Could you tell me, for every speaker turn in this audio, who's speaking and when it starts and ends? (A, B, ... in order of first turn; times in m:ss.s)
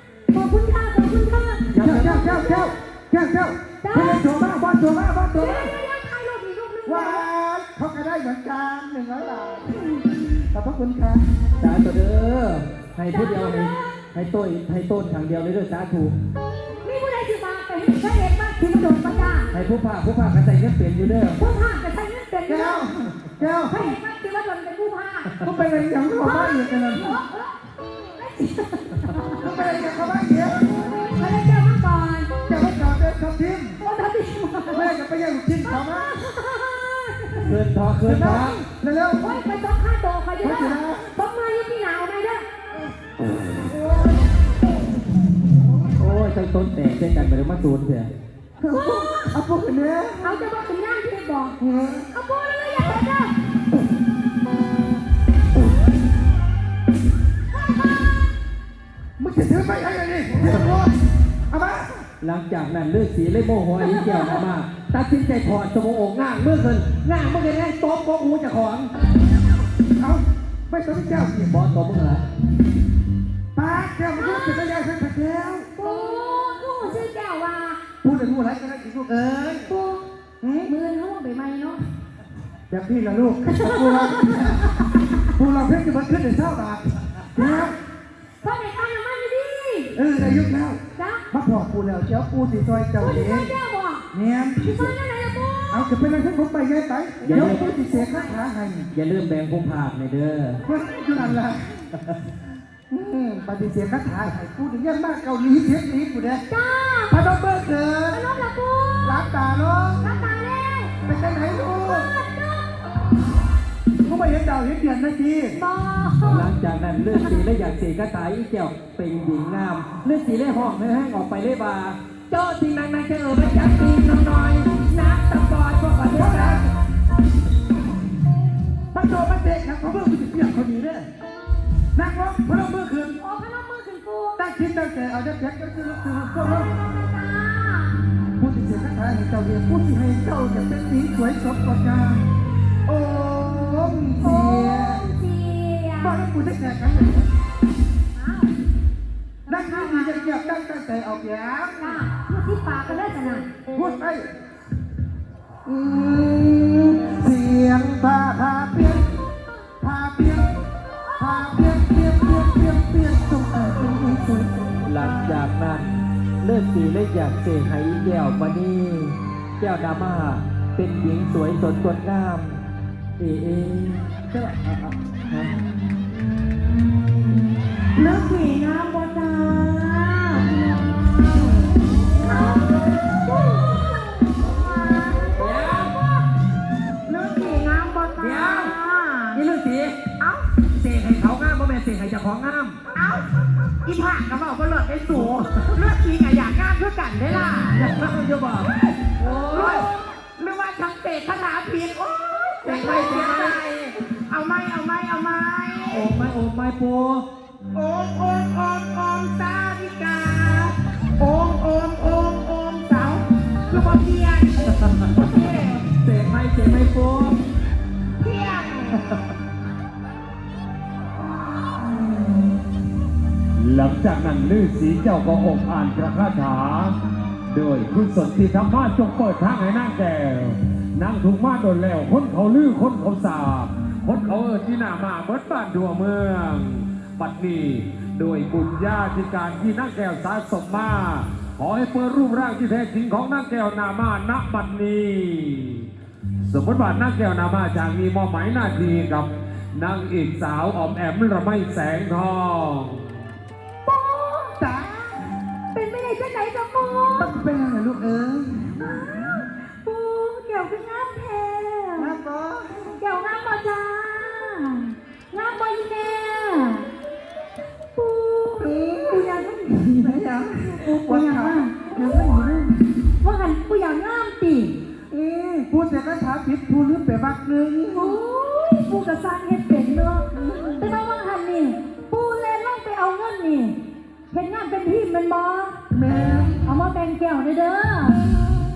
0:00.3-0:01.6 A
0:01.7-0:02.3 B
0:01.8-0:05.7 C
0:02.2-0:02.7 A
0:03.8-0:04.2 A
0:05.3-0:07.3 A
0:06.9-0:11.2 C
0:11.6-0:16.1 B
0:13.1-0:13.8 A
0:16.8-0:19.5 A
0:19.5-0:21.4 B
0:21.4-0:22.8 A
0:22.5-0:23.9 C
0:23.7-0:25.3 A
0:25.4-0:27.2 C
0:26.2-0:27.6 A
0:28.2-0:29.8 A
0:29.4-0:30.8 C
0:30.8-0:32.3 A
0:32.5-0:33.8 C
0:33.8-0:34.9 A
0:34.7-0:36.1 C
0:35.8-0:37.6 A
0:37.4-0:38.6 B
0:38.0-0:39.2 C
0:39.2-0:42.5 A
0:40.4-0:41.1 C
0:43.5-0:44.2 C
0:46.0-0:48.1 B
0:48.6-0:50.5 C
0:48.7-0:49.4 A
0:50.2-0:51.6 A
0:51.6-0:52.1 C
0:52.1-0:53.3 A
0:57.7-0:58.1 A
0:59.2-1:00.9 C
1:01.5-1:02.1 C
1:02.2-1:08.9 B
1:03.8-1:04.4 A
1:10.0-1:11.5 C
1:11.5-1:12.2 B
1:13.6-1:15.7 C
1:14.2-1:14.8 A
1:15.8-1:17.8 A
1:18.0-1:19.7 C
1:19.7-1:20.0 A
1:20.4-1:20.7 C
1:20.7-1:21.9 A
1:22.7-1:24.7 C
1:23.5-1:25.2 A
1:25.3-1:27.8 C
1:27.4-1:27.7 A
1:28.4-1:30.0 A
1:29.9-1:30.8 C
1:31.0-1:31.2 A
1:31.3-1:33.6 C
1:33.0-1:34.0 A
1:34.1-1:34.6 C
1:34.6-1:35.8 A
1:35.7-1:38.9 C
1:37.2-1:37.7 B
1:37.3-1:38.4 A
1:38.9-1:40.6 B
1:40.7-1:41.9 C
1:42.9-1:46.4 C
1:46.5-1:47.2 A
1:47.1-1:48.2 C
1:48.1-1:49.2 A
1:49.0-1:50.1 C
1:50.0-1:51.0 A
1:51.1-1:52.1 C
1:51.5-1:52.8 A
1:54.0-1:55.6 C
1:55.6-1:56.5 A
1:56.3-2:06.6 B
2:06.1-2:06.7 C
2:08.9-2:11.0 C
2:10.7-2:11.0 B
2:11.9-2:13.2 C
2:13.2-2:14.4 A
2:14.4-2:16.7 C
2:16.4-2:18.0 A
2:18.4-2:22.3 C
2:22.9-2:25.0 C
2:24.2-2:26.2 A
2:26.0-2:27.3 C
2:28.1-2:28.6 A
2:29.5-2:30.4 A
2:29.5-2:32.0 C
2:31.8-2:33.4 A
2:33.7-2:34.3 C
2:35.7-2:39.0 C
2:39.8-2:40.5 C
2:41.2-2:45.1 C
2:44.9-2:52.6 B
2:53.2-2:55.5 B
2:58.0-3:01.6 D
3:02.2-3:06.2 A
3:05.4-3:05.9 B
3:07.1-3:09.4 D
3:08.2-3:08.7 B
3:09.3-3:10.1 B
3:10.7-3:12.8 B
3:12.9-3:13.2 D
3:13.8-3:18.0 D
3:17.7-3:19.9 B
3:19.2-3:26.1 D
3:22.6-3:23.6 B
3:25.9-3:27.2 B
3:27.7-3:34.6 D
3:34.8-3:35.2 B
3:35.2-3:35.8 D
3:35.9-3:37.4 B
3:38.2-3:39.0 D
3:43.6-3:47.0 E
3:47.5-4:05.9 E
4:06.4-4:13.0 E
4:13.8-4:14.6 A
4:14.6-4:15.1 C
4:15.7-4:17.3 A
4:17.2-4:18.8 C
4:18.8-4:22.2 A
4:22.0-4:22.9 C
4:23.0-4:26.9 A
4:28.0-4:31.7 A
4:28.6-4:32.8 C
4:33.2-4:34.8 A
4:35.1-4:38.2 C
4:37.9-4:43.8 A
4:40.4-4:40.9 C
4:44.3-4:45.8 A
4:45.9-4:46.7 C
4:46.6-4:48.2 A